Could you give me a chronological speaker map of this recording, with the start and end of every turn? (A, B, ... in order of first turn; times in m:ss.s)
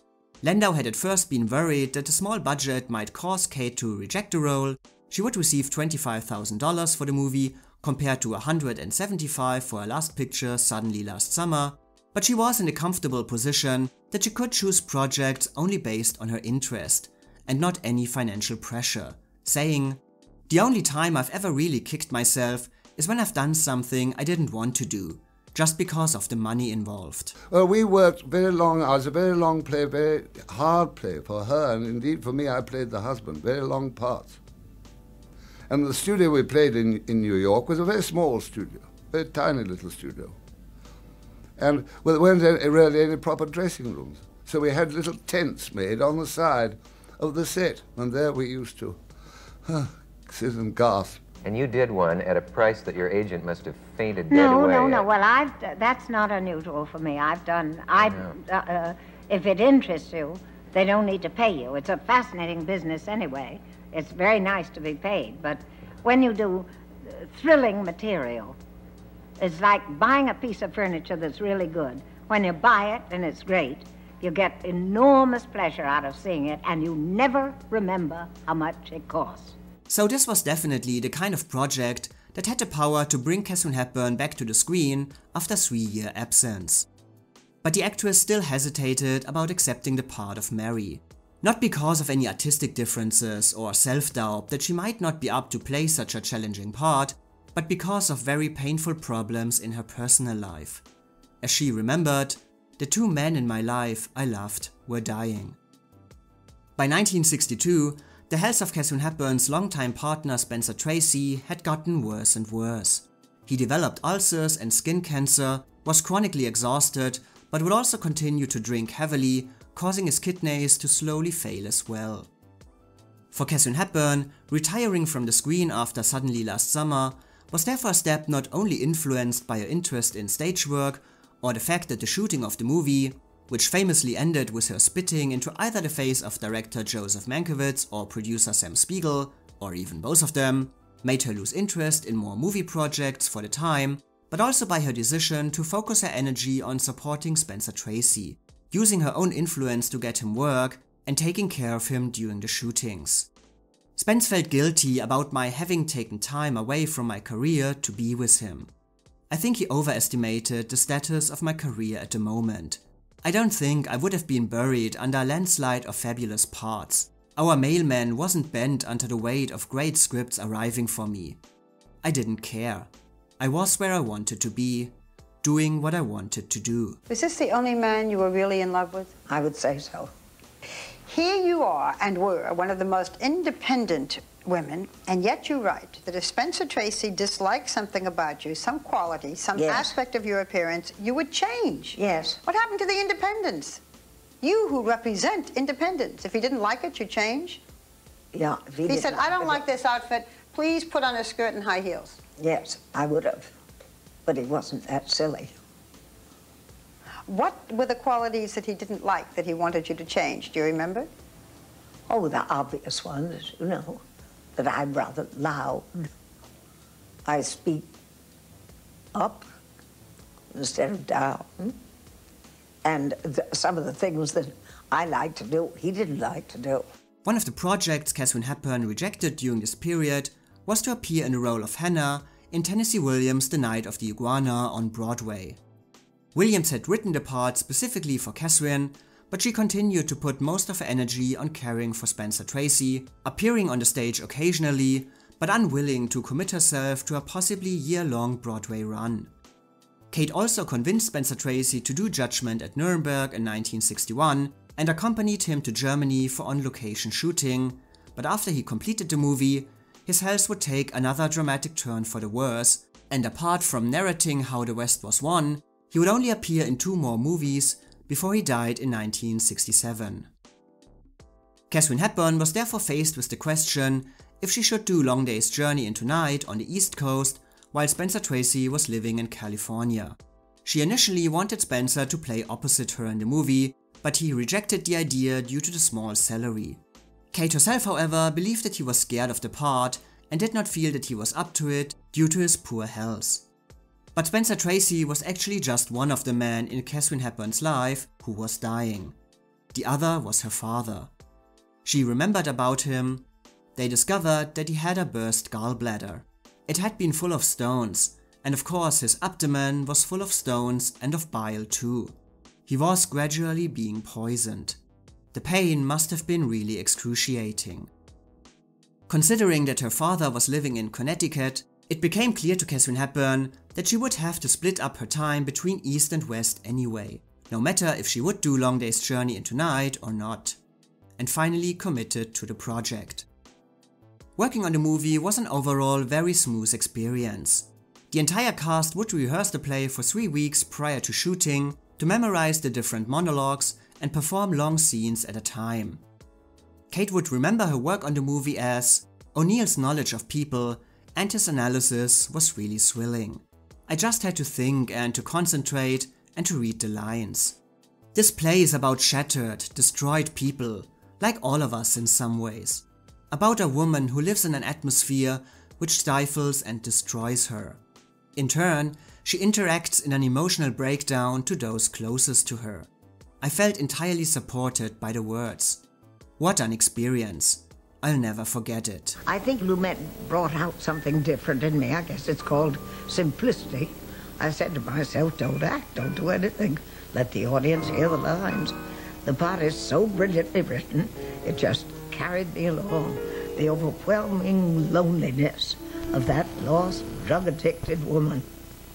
0:00.4-0:27.4 A
0:27.5-0:34.4 B
0:35.7-0:40.4 B
0:41.6-0:49.0 B
0:49.7-0:51.2 B
0:51.4-0:55.1 C
0:54.3-1:08.6 D
0:58.0-0:58.4 C
1:09.4-1:19.6 D
1:19.9-1:26.9 A
1:27.6-1:40.8 A
1:41.4-1:45.6 A
1:46.8-2:02.3 A
2:03.3-2:33.3 A
2:34.0-2:38.7 A
2:39.3-2:51.4 A
2:52.0-2:52.9 A
2:53.4-2:54.9 A
2:55.4-2:57.0 A
2:57.1-2:59.1 E
2:59.3-3:00.1 F
3:01.1-3:13.8 E
3:09.6-3:09.9 F
3:12.0-3:12.4 F
3:14.4-3:17.6 E
3:18.3-3:19.6 F
3:18.9-3:22.2 E
3:22.4-3:23.5 F
3:24.3-3:25.6 F
3:27.3-3:31.1 E
3:32.1-3:34.0 F
3:34.6-3:36.1 F
3:37.2-3:37.9 F
3:39.1-3:39.5 F
3:40.5-3:41.8 F
3:42.8-3:46.9 F
3:47.2-3:55.6 A
3:56.3-4:09.3 A
4:10.1-4:30.3 A
4:31.7-4:46.8 A
4:47.3-4:53.4 A
4:54.2-4:59.1 A
4:59.7-5:01.1 A
5:01.8-5:12.2 A
5:12.7-5:14.8 A
5:15.3-5:17.9 A
5:19.1-5:30.6 A
5:31.2-5:33.3 A
5:34.4-5:46.0 A
5:46.9-5:57.6 A
5:58.2-6:07.8 A
6:08.4-6:12.9 A
6:13.4-6:15.8 A
6:16.4-6:19.2 A
6:19.2-6:38.5 F